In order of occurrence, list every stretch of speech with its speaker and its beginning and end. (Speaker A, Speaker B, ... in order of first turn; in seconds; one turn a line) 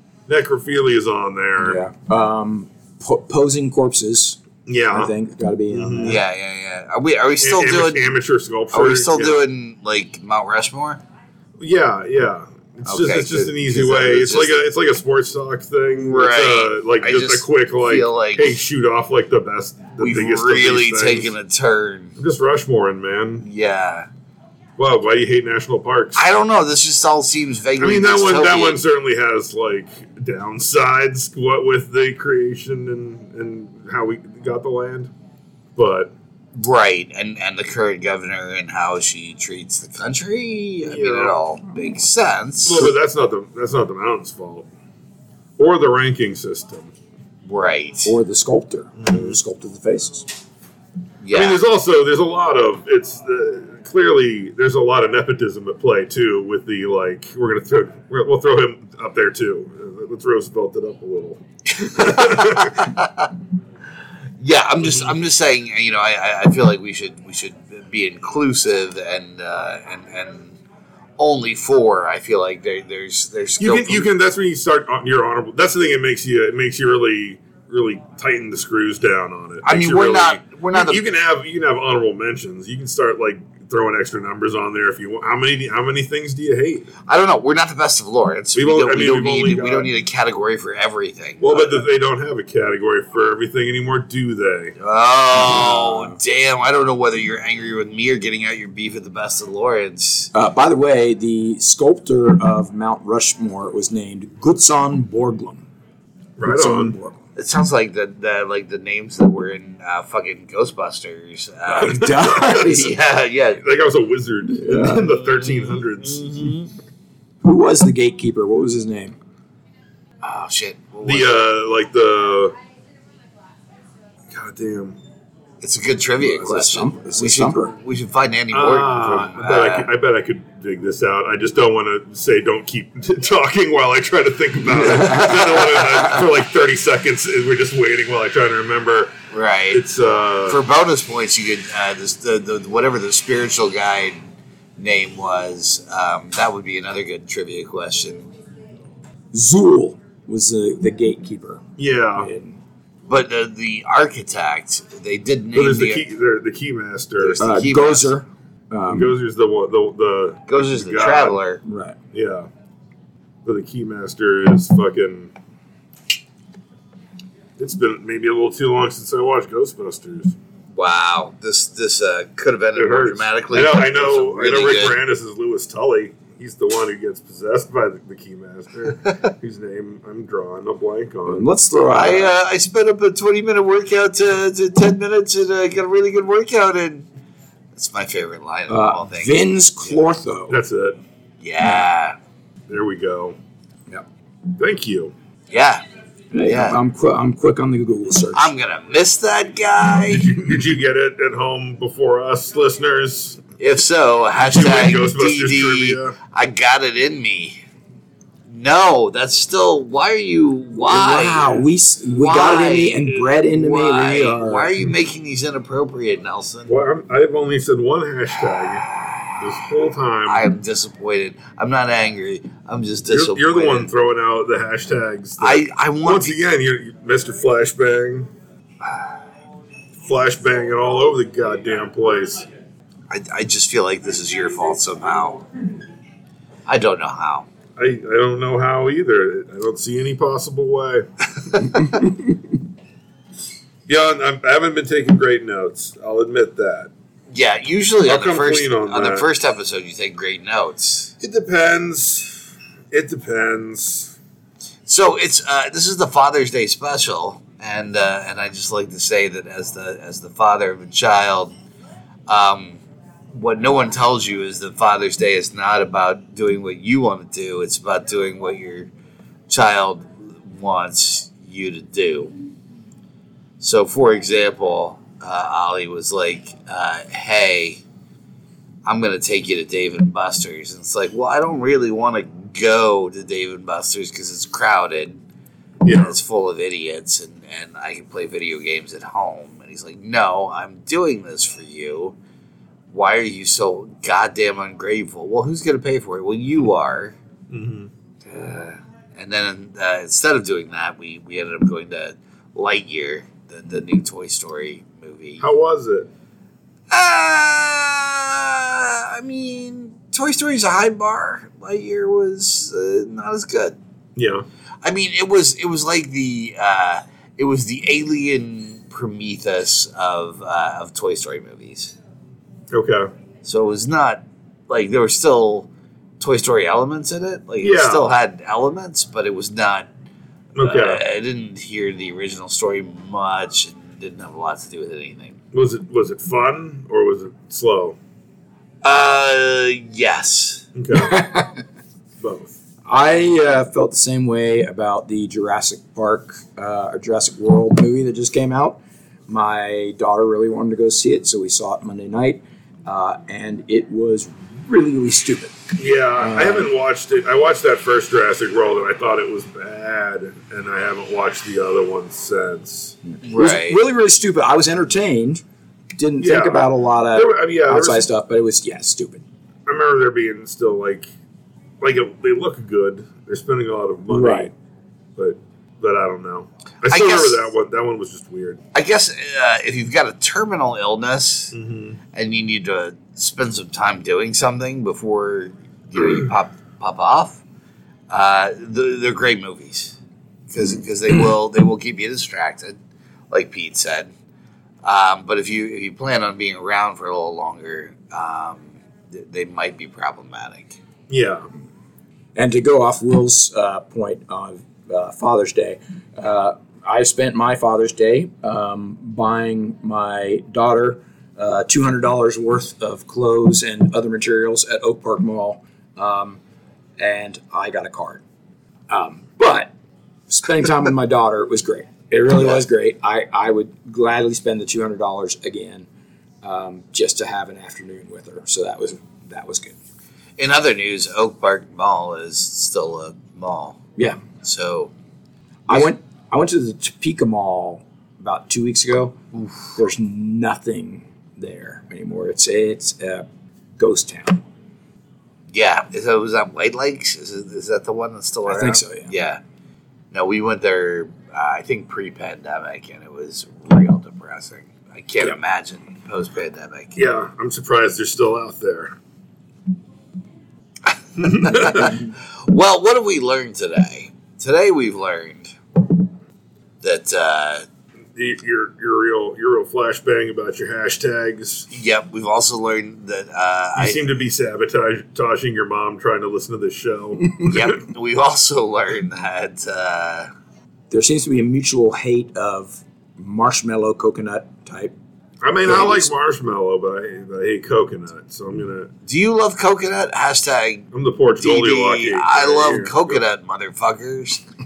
Speaker A: 0.3-1.8
Speaker B: 1.6-4.4
Speaker A: 4.7-5.1
Speaker B: 4.9-6.2
Speaker A: 5.7-6.2
Speaker C: 6.0-8.1
Speaker A: 7.4-9.4
Speaker C: 8.7-11.0
Speaker A: 11.6-21.3
Speaker C: 12.8-14.6
Speaker C: 16.0-18.6
Speaker C: 20.0-22.1
Speaker A: 22.2-23.4
Speaker C: 23.4-24.1
Speaker A: 24.8-26.2
Speaker C: 26.1-28.8
Speaker A: 27.8-35.1
Speaker A: 35.8-36.1
Speaker C: 36.5-42.9
Speaker A: 40.8-41.4
Speaker A: 42.6-44.7
Speaker A: 45.6-46.9
Speaker C: 47.4-48.1
Speaker B: 48.0-50.3
Speaker A: 49.0-49.4
Speaker C: 51.2-51.6
Speaker A: 51.3-62.9
Speaker C: 61.8-63.3
Speaker C: 64.4-70.6
Speaker A: 64.9-65.1
Speaker C: 71.2-74.1
Speaker A: 73.6-86.9
Speaker C: 79.6-81.0
Speaker C: 87.1-91.8
Speaker A: 88.5-89.9
Speaker A: 91.4-94.7
Speaker C: 94.8-100.3
Speaker B: 95.4-96.1
Speaker B: 100.3-105.6
Speaker A: 106.4-107.0
Speaker B: 106.4-107.2
Speaker C: 107.3-113.6
Speaker B: 111.7-112.9
Speaker A: 111.8-112.8
Speaker A: 113.6-116.5
Speaker B: 114.5-115.1
Speaker C: 115.1-116.7
Speaker B: 117.4-119.2
Speaker C: 120.2-121.4
Speaker A: 121.0-122.5
Speaker A: 124.3-125.0
Speaker C: 125.6-129.9
Speaker B: 126.2-127.7
Speaker A: 128.5-139.1
Speaker C: 139.3-139.8
Speaker A: 139.7-140.6
Speaker C: 140.5-148.3
Speaker B: 149.3-151.6
Speaker A: 151.8-152.3
Speaker B: 152.2-152.6
Speaker C: 153.1-156.0
Speaker A: 155.5-157.4
Speaker C: 157.2-158.1
Speaker B: 157.4-159.1
Speaker A: 158.9-161.4
Speaker C: 160.5-161.6
Speaker B: 161.6-162.0
Speaker A: 162.1-162.5
Speaker A: 163.4-165.3
Speaker A: 167.6-170.3
Speaker C: 170.7-175.0
Speaker A: 172.7-181.5
Speaker B: 181.2-182.3
Speaker C: 181.9-187.1
Speaker C: 187.7-189.4
Speaker B: 188.7-190.6
Speaker A: 190.5-191.0
Speaker C: 191.4-192.2
Speaker A: 192.7-193.3
Speaker A: 194.6-195.1
Speaker C: 195.5-195.8
Speaker B: 196.3-198.5
Speaker C: 196.4-196.8
Speaker C: 198.3-200.4
Speaker A: 200.1-203.4
Speaker C: 203.6-207.6
Speaker A: 204.4-206.2
Speaker C: 208.5-211.6
Speaker B: 210.8-214.7
Speaker C: 212.2-216.7
Speaker A: 216.7-220.5
Speaker C: 220.2-223.9
Speaker A: 223.1-228.3
Speaker C: 225.4-226.4
Speaker A: 230.0-232.4
Speaker C: 233.1-235.4
Speaker C: 236.7-237.5
Speaker A: 237.8-241.7
Speaker A: 243.9-246.9
Speaker C: 247.3-251.1
Speaker A: 248.0-249.3
Speaker A: 251.2-254.1
Speaker C: 254.9-261.5
Speaker C: 262.3-262.8
Speaker C: 263.3-268.9
Speaker C: 269.5-272.3
Speaker C: 273.6-277.8
Speaker C: 278.8-285.2
Speaker A: 285.8-286.1
Speaker C: 285.9-292.1
Speaker C: 292.9-297.2
Speaker A: 297.5-297.9
Speaker C: 298.2-305.4
Speaker A: 305.4-306.1
Speaker C: 306.9-313.8
Speaker A: 314.1-314.4
Speaker C: 314.8-321.9
Speaker A: 322.7-323.1
Speaker C: 323.4-325.7
Speaker C: 326.2-329.9
Speaker A: 327.6-328.1
Speaker A: 330.6-331.0
Speaker C: 330.6-335.4
Speaker A: 335.5-338.0
Speaker C: 338.8-340.6
Speaker A: 340.7-341.2
Speaker B: 340.9-341.5
Speaker A: 342.2-342.5
Speaker B: 342.9-355.6
Speaker A: 355.8-362.9
Speaker B: 356.2-356.7
Speaker B: 363.1-365.4
Speaker C: 363.2-363.8
Speaker B: 365.9-369.2
Speaker A: 366.2-368.1
Speaker A: 369.7-371.1
Speaker A: 371.8-374.5
Speaker B: 374.1-374.5
Speaker A: 375.1-378.6
Speaker C: 376.9-377.4
Speaker C: 378.7-381.5
Speaker A: 381.5-382.0
Speaker C: 382.1-387.4
Speaker C: 388.1-389.9
Speaker C: 390.5-392.8
Speaker C: 393.3-394.1
Speaker C: 394.8-400.8
Speaker A: 401.1-401.5
Speaker B: 402.3-416.4
Speaker B: 417.0-418.2
Speaker B: 418.9-419.7
Speaker B: 420.3-425.9
Speaker B: 426.4-429.8
Speaker C: 430.4-433.8
Speaker C: 434.4-434.9
Speaker B: 435.7-439.2
Speaker B: 439.7-443.2
Speaker B: 443.8-444.4
Speaker C: 445.5-449.4
Speaker B: 448.5-449.1
Speaker C: 450.1-457.0
Speaker A: 456.9-458.9
Speaker C: 461.2-465.6
Speaker A: 461.2-461.9
Speaker C: 466.8-467.6
Speaker A: 468.1-471.7
Speaker C: 471.7-474.0
Speaker A: 473.8-477.8
Speaker C: 477.4-480.3
Speaker B: 480.9-484.9
Speaker A: 485.4-488.9
Speaker B: 485.6-486.1
Speaker C: 489.0-490.9
Speaker A: 490.9-493.2
Speaker C: 491.4-494.4